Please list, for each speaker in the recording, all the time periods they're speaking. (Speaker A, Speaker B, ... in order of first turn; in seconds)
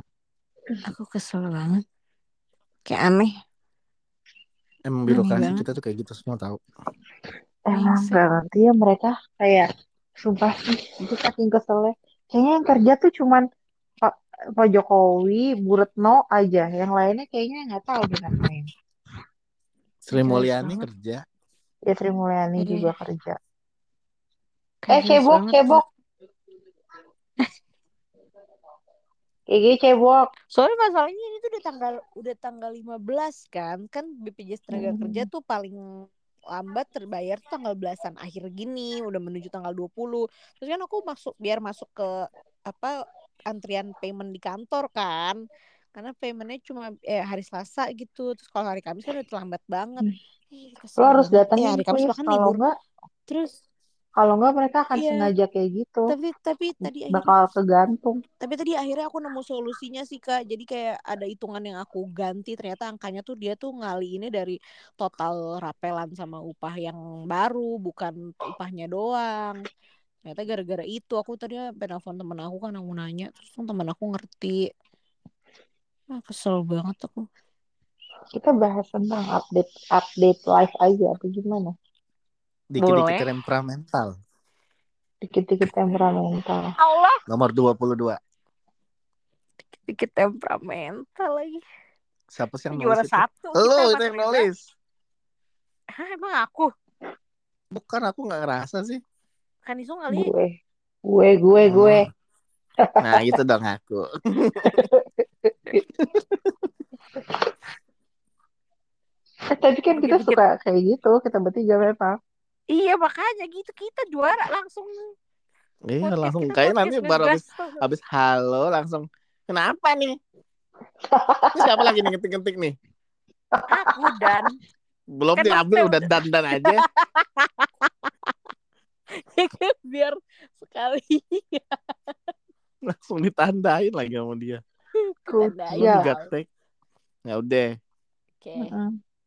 Speaker A: 0.8-1.8, 2.9-3.3, 5.1-5.6, 7.7-8.2, 20.1-20.9, 22.6-22.8, 24.8-25.8, 30.5-35.8, 36.5-42.9, 43.5-45.4, 45.9-52.6, 53.3-53.5, 54.9-55.3, 56.1-57.3, 58.4-69.6, 70.2-74.6, 76.1-77.2, 82.8-83.3, 86.8-87.2, 89.8-91.6, 92.7-94.5, 96.0-96.7, 99.7-100.3, 109.9-110.4, 112.7-115.1, 116.0-117.8, 123.7-124.5, 125.4-128.3, 129.2-132.3, 135.0-136.3, 138.4-138.7
Speaker B: 4.9-6.6, 20.1-21.2, 82.7-84.1, 87.3-88.2, 92.3-94.6, 97.7-99.0, 101.7-102.0, 103.0-104.8, 106.0-106.6, 115.9-120.2, 121.5-122.8, 125.1-126.8, 132.9-134.6, 135.7-136.4, 137.3-137.7
Speaker C: 5.2-5.5, 7.7-9.7, 10.2-13.4, 14.0-18.7, 21.9-23.4, 24.9-25.8, 29.5-30.2, 34.7-35.3, 51.0-52.7, 54.2-56.1, 57.1-58.2, 78.4-81.7, 85.2-86.7, 100.1-100.5, 101.1-102.0, 104.7-105.8, 109.5-112.2, 121.1-122.0, 123.5-124.3, 135.3-136.1, 138.6-138.9